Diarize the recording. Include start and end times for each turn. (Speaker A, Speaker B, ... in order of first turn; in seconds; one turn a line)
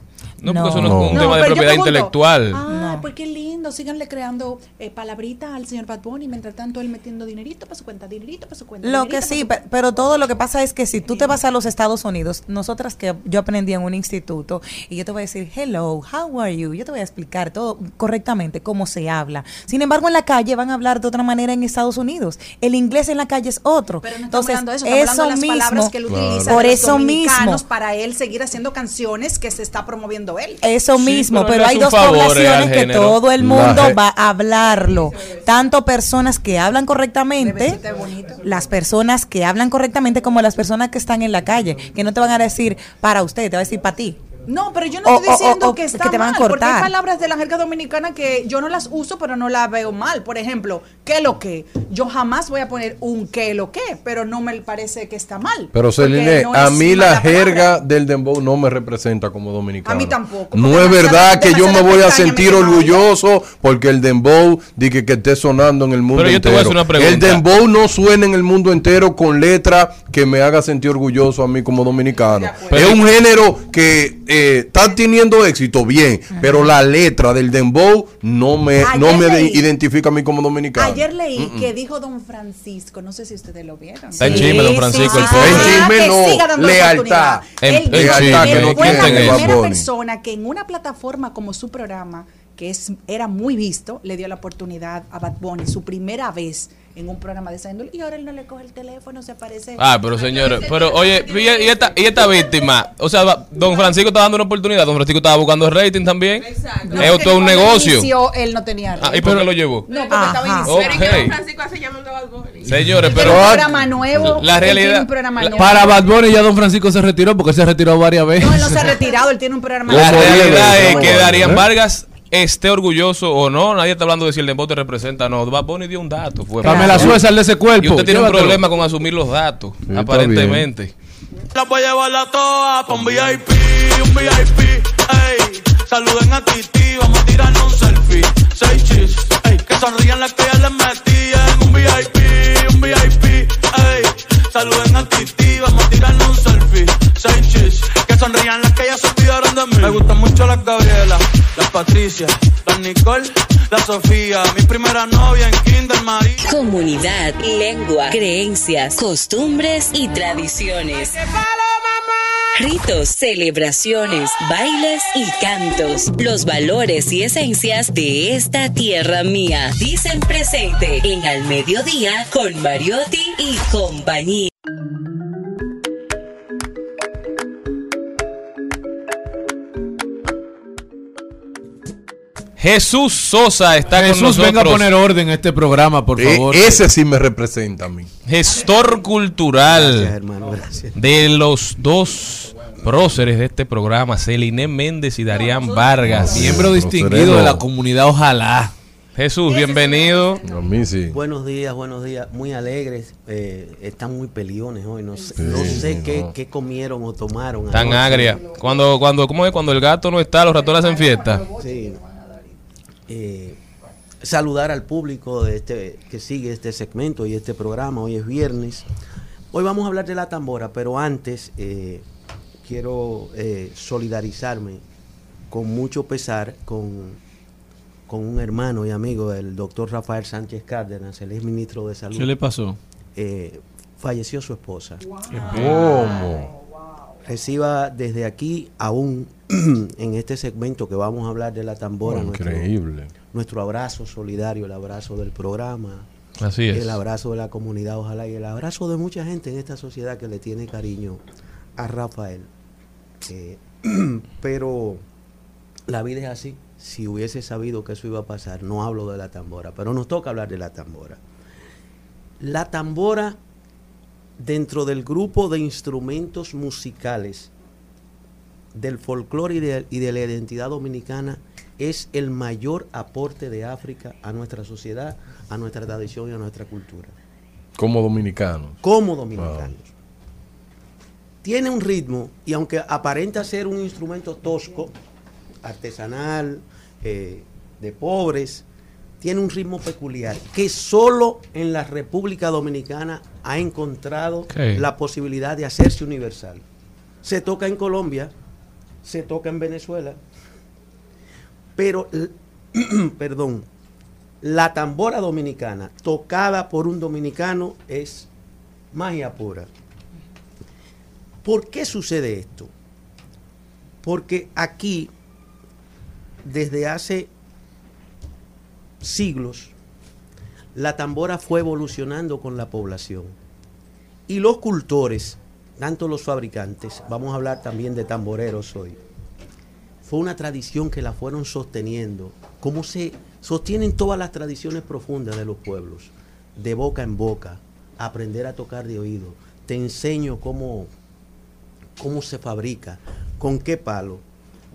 Speaker A: 0.4-2.6
Speaker B: 0.4-1.1
Speaker C: 0.8-1.3
Speaker D: 1.1-9.5
Speaker B: 2.7-3.1
Speaker B: 8.8-25.9
Speaker D: 24.0-30.6
Speaker C: 26.1-26.7
Speaker B: 26.4-27.6
Speaker B: 30.6-37.8
Speaker A: 31.0-33.2
Speaker C: 33.4-34.0
Speaker D: 37.4-38.5
Speaker B: 38.4-44.2
Speaker D: 44.5-57.7
Speaker B: 45.0-46.9
Speaker C: 55.7-81.7
Speaker D: 59.9-63.1
Speaker A: 66.1-67.4
Speaker A: 72.7-73.0
Speaker D: 78.8-79.6
Speaker D: 80.8-99.9
Speaker A: 84.2-85.9
Speaker C: 84.2-89.9
Speaker A: 87.6-89.5
Speaker A: 99.8-108.1
Speaker E: 100.2-102.4
Speaker E: 106.4-107.4
Speaker D: 106.9-110.9
Speaker A: 109.0-109.9
Speaker F: 109.2-109.5
Speaker E: 109.9-113.5
Speaker B: 110.1-110.8
Speaker A: 110.6-111.4
Speaker A: 112.7-113.6
Speaker F: 112.8-113.3
Speaker D: 113.1-116.0
Speaker C: 113.2-114.4
Speaker A: 114.3-115.1
Speaker F: 115.4-119.0
Speaker D: 118.4-121.2
Speaker C: 119.9-121.7
Speaker A: 119.9-127.2
Speaker F: 120.1-120.4
Speaker F: 126.6-128.6
Speaker B: 126.6-127.1
Speaker A: 127.8-130.9
Speaker C: 129.9-130.7
Speaker G: 131.5-156.4
Speaker H: 156.4-161.2
Speaker H: 162.6-174.5
Speaker A: 182.6-184.9
Speaker F: 183.9-186.9
Speaker C: 186.2-188.1
Speaker A: 188.3-190.1
Speaker I: 189.6-191.0
Speaker A: 191.0-196.7
Speaker E: 195.3-196.2
Speaker C: 196.0-197.6
Speaker F: 196.3-198.7
Speaker A: 199.2-200.4
Speaker E: 199.5-200.4
Speaker C: 200.4-201.2
Speaker I: 201.1-208.4
Speaker C: 205.4-206.3
Speaker A: 207.7-211.5
Speaker D: 210.8-212.4
Speaker I: 211.6-212.0
Speaker I: 213.1-213.6
Speaker I: 214.2-218.8
Speaker I: 219.5-222.0
Speaker I: 222.6-224.8
Speaker I: 225.5-227.2
Speaker I: 228.1-232.4
Speaker F: 232.1-232.8
Speaker I: 233.2-235.0
Speaker C: 235.3-236.5
Speaker F: 235.4-235.7
Speaker I: 237.3-242.7
Speaker C: 242.0-243.1
Speaker I: 243.2-246.1
Speaker A: 246.4-247.0
Speaker I: 246.7-251.2
Speaker I: 251.8-252.5
Speaker I: 253.2-255.0
Speaker I: 255.9-261.2
Speaker I: 262.4-263.4
Speaker I: 264.4-267.5
Speaker I: 268.8-277.1
Speaker C: 277.8-278.8
Speaker I: 278.8-279.9
Speaker C: 279.4-279.7
Speaker I: 281.4-284.9
Speaker I: 285.6-288.6
Speaker I: 289.2-296.6
Speaker F: 294.5-294.8
Speaker I: 297.2-298.3
Speaker I: 299.0-300.2
Speaker I: 301.8-303.7
Speaker I: 304.4-308.3
Speaker I: 308.9-309.7
Speaker I: 311.4-312.7
Speaker I: 314.0-315.1
Speaker I: 316.4-317.3
Speaker I: 319.0-319.7
Speaker I: 320.8-323.4
Speaker I: 324.3-329.0
Speaker I: 330.0-340.9
Speaker I: 342.0-344.2